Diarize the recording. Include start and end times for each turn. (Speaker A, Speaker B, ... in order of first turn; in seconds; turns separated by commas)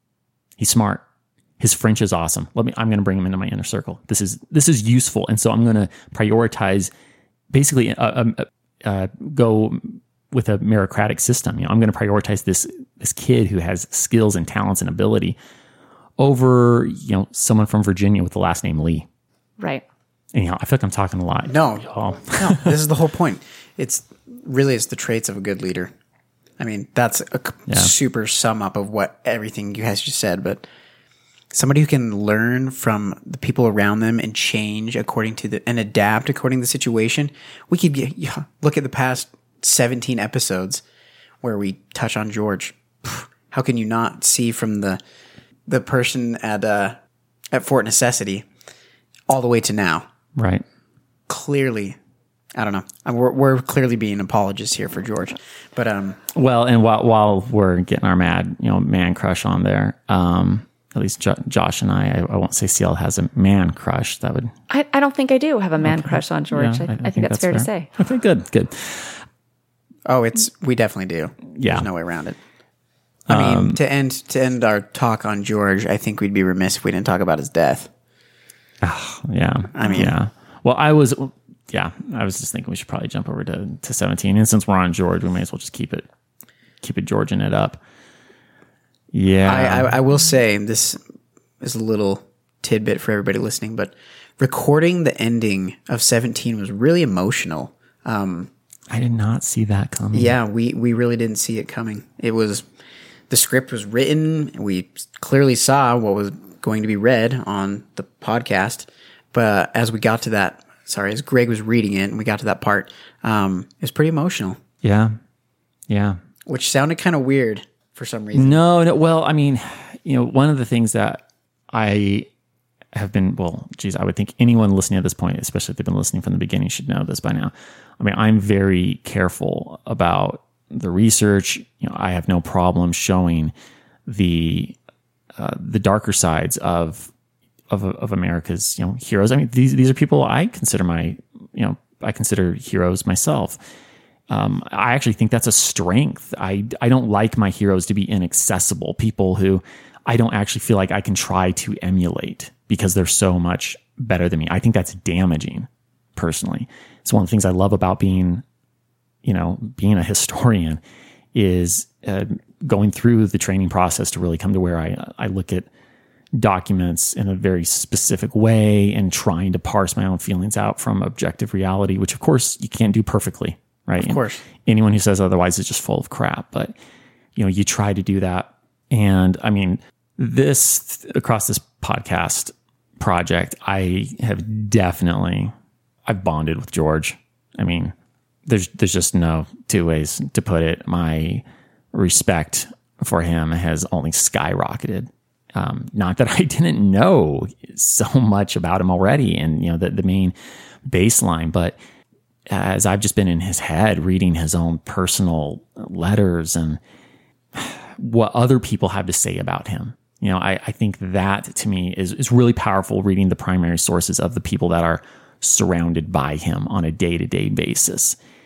Speaker A: 0.6-1.0, Speaker A: 1.6-6.9, Speaker A: 7.5-15.4, Speaker A: 16.2-19.1, Speaker B: 19.6-19.8, Speaker A: 20.3-22.8, Speaker C: 21.5-25.9, Speaker C: 26.6-30.6, Speaker A: 27.7-27.9, Speaker C: 31.5-40.8, Speaker C: 41.4-45.0, Speaker C: 45.7-47.0, Speaker C: 47.5-48.5, Speaker C: 49.3-50.1, Speaker A: 50.4-50.6, Speaker C: 51.3-52.0, Speaker C: 52.5-56.2, Speaker A: 56.3-64.5, Speaker B: 64.7-67.9, Speaker A: 65.8-69.2, Speaker C: 70.1-72.4, Speaker A: 71.5-71.9, Speaker A: 73.3-73.8, Speaker C: 73.3-77.9, Speaker A: 78.8-86.1, Speaker C: 79.7-80.2, Speaker A: 86.8-87.8, Speaker A: 89.1-90.0, Speaker C: 89.5-91.0, Speaker C: 91.6-98.5, Speaker A: 98.9-100.4, Speaker C: 100.1-102.7, Speaker C: 103.3-114.6, Speaker A: 114.8-115.2, Speaker A: 115.9-116.2, Speaker C: 116.5-118.6, Speaker A: 118.3-122.3, Speaker A: 122.9-133.5, Speaker A: 134.1-134.8, Speaker A: 135.4-137.1, Speaker A: 137.7-143.6, Speaker A: 144.3-158.4, Speaker A: 159.2-160.8, Speaker A: 161.3-165.7, Speaker A: 166.3-176.7, Speaker C: 174.0-174.4, Speaker A: 177.4-185.5, Speaker A: 186.1-187.9, Speaker A: 188.5-200.3, Speaker A: 200.8-201.8, Speaker A: 202.5-206.8, Speaker A: 207.5-218.2